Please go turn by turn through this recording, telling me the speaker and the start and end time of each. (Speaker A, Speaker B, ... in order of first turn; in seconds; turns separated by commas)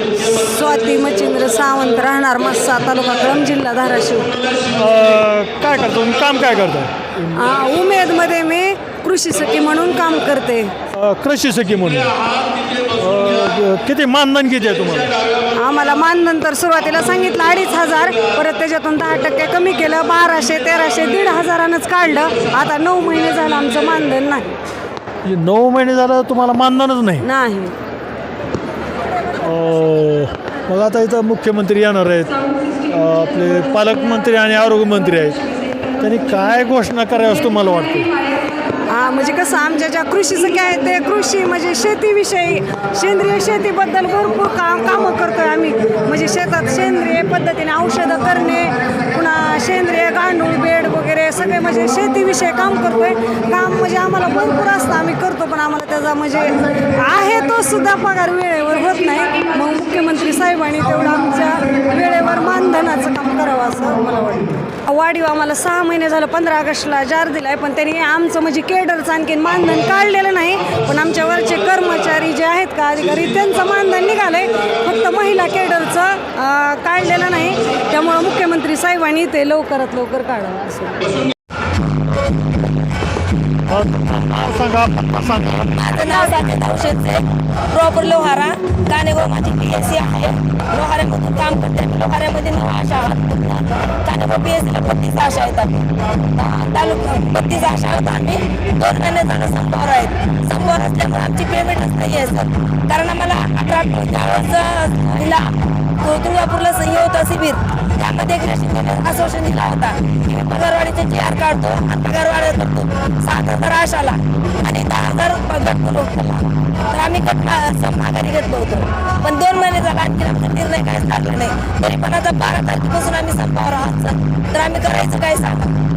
Speaker A: 0.2-4.3, Speaker B: 4.8-7.2, Speaker A: 7.3-10.7, Speaker B: 10.9-12.1, Speaker B: 13.0-15.1, Speaker A: 15.6-24.5, Speaker B: 25.2-27.2, Speaker A: 27.2-27.7, Speaker B: 29.4-32.3, Speaker B: 32.9-35.4, Speaker B: 36.0-38.0, Speaker A: 38.9-81.0, Speaker B: 83.7-85.7, Speaker C: 85.9-87.2, Speaker A: 86.0-86.5, Speaker C: 87.7-95.7, Speaker C: 96.3-125.7